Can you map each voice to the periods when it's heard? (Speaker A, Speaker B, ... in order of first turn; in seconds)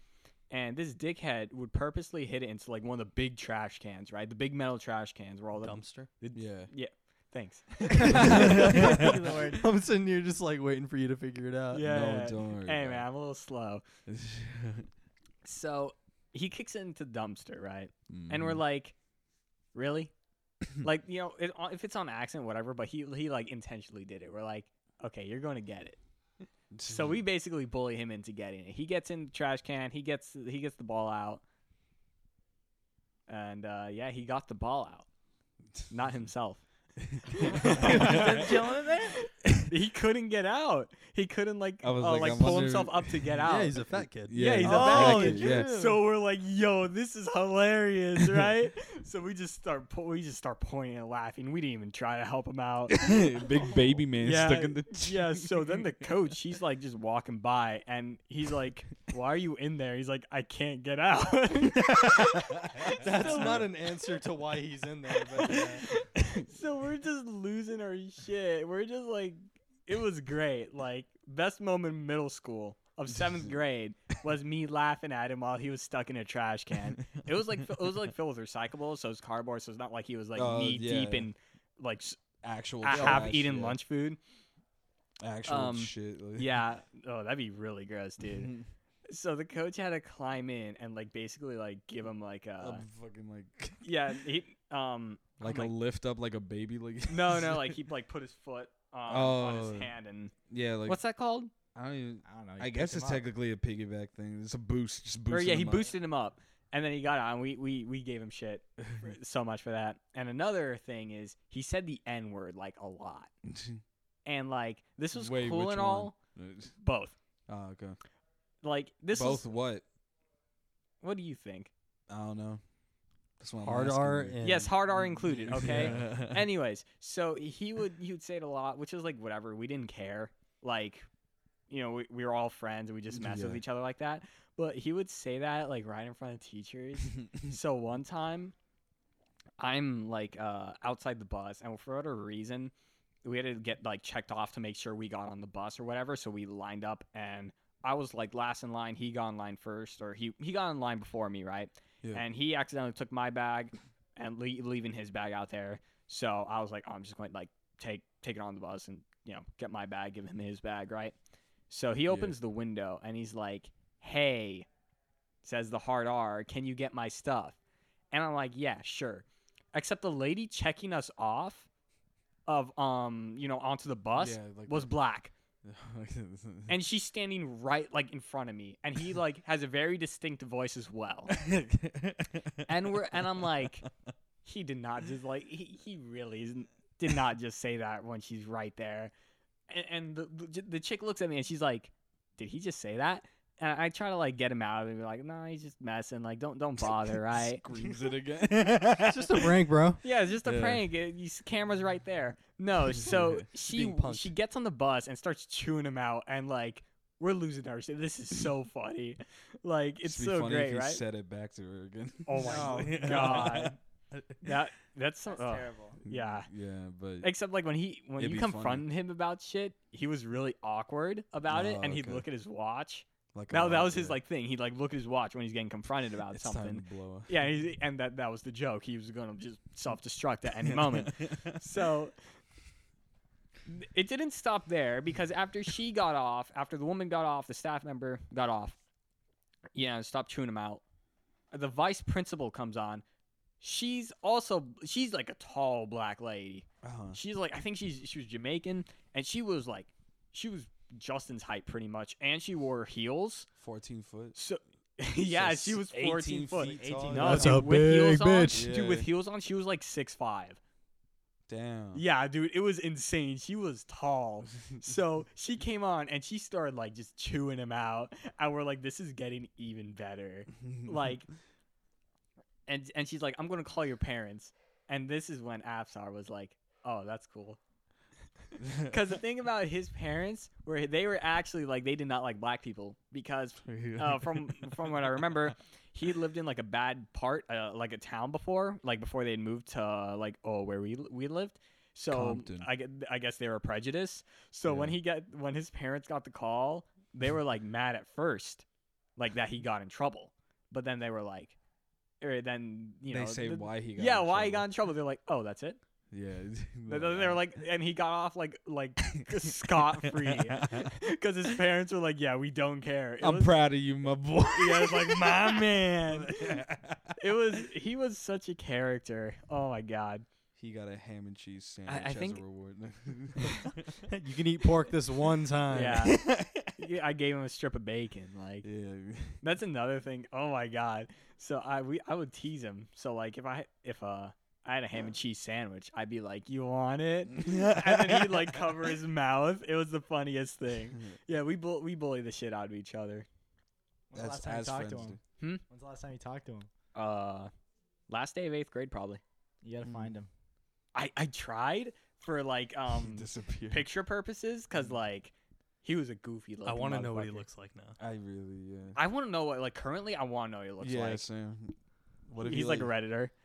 Speaker A: 0.5-8.7, 11.7-13.8, 15.4-19.0, 19.7-20.1, 20.8-26.0, 26.9-31.4, 33.3-35.1, 35.9-36.6, 37.4-38.5, 39.7-43.8, 44.3-53.1, 54.2-63.7, 65.3-82.2, 82.8-84.2, 85.5-88.5, 89.1-92.8, 93.8-95.7, 97.1-100.3, 100.9-101.5, 105.3-113.3, 114.2-116.2, 116.8-117.2, 118.6-119.5, 121.0-121.7, 124.4-131.1, 131.7-138.6, 139.6-142.7, 143.2-161.1, 161.7-164.7, 165.4-167.6, 168.1-171.7, 172.5-175.3, 176.7-181.3, 182.7-183.9, 184.4-189.1, 189.7-197.6, 200.0-211.0, 212.3-213.8, 214.4-216.5, 217.2-232.2, 233.7-238.8, 239.8-240.8, 241.5-243.0, 243.6-253.5, 254.3-260.6, 261.9-271.3, 272.7-277.6, 278.9-298.6, 299.2-301.6, 302.2-305.8, 306.9-313.6, 314.6-316.6, 317.2-320.2, 321.9-322.4, 325.7-328.7, 329.4-343.3, 346.9-347.5, 348.1-349.2, 350.9-357.4, 358.9-361.2, 362.4-363.3
Speaker B: 5.6-6.1, 8.1-11.8, 43.5-44.4, 62.9-65.9, 123.6-124.7, 125.5-126.0, 199.0-200.0, 203.6-204.3, 257.2-258.6, 324.1-326.1, 356.6-358.0
Speaker C: 6.3-6.7, 8.1-9.2, 11.8-13.1, 14.1-14.9, 18.1-18.6, 26.7-27.2, 37.0-38.6, 41.8-43.4, 44.2-45.7, 52.9-55.5, 61.9-63.7, 80.3-81.3, 82.4-83.8, 85.2-86.5, 88.3-88.7, 92.6-93.8, 95.4-97.8, 99.1-99.9, 100.5-101.0, 101.7-105.9, 113.5-113.8, 115.1-116.7, 117.5-118.0, 119.1-119.8, 122.1-122.6, 123.4-126.4, 133.1-133.6, 162.1-162.4, 174.2-174.9, 175.6-176.8, 181.3-182.7, 197.3-199.5, 200.4-200.8, 202.9-203.4, 210.0-214.6, 216.1-217.3, 218.2-218.9, 221.5-222.3, 223.3-224.2, 226.3-227.3, 230.7-231.5, 246.8-247.2, 253.6-254.4, 255.2-257.5, 258.5-259.1, 261.5-262.0, 278.6-279.0, 283.6-285.1, 292.1-292.7, 294.7-295.0, 303.1-304.7, 306.1-307.4, 309.2-310.9, 313.2-317.2, 320.6-323.9, 326.1-326.7, 328.6-329.4, 337.3-338.7, 344.1-345.2, 349.8-350.1, 353.0-353.9, 358.0-359.0, 360.8-361.8, 362.3-362.9
Speaker D: 8.0-9.7, 37.6-39.2, 44.6-46.0, 82.9-83.2, 102.2-103.3, 212.3-213.7, 215.3-216.0, 256.7-257.7, 344.1-346.7, 349.6-350.3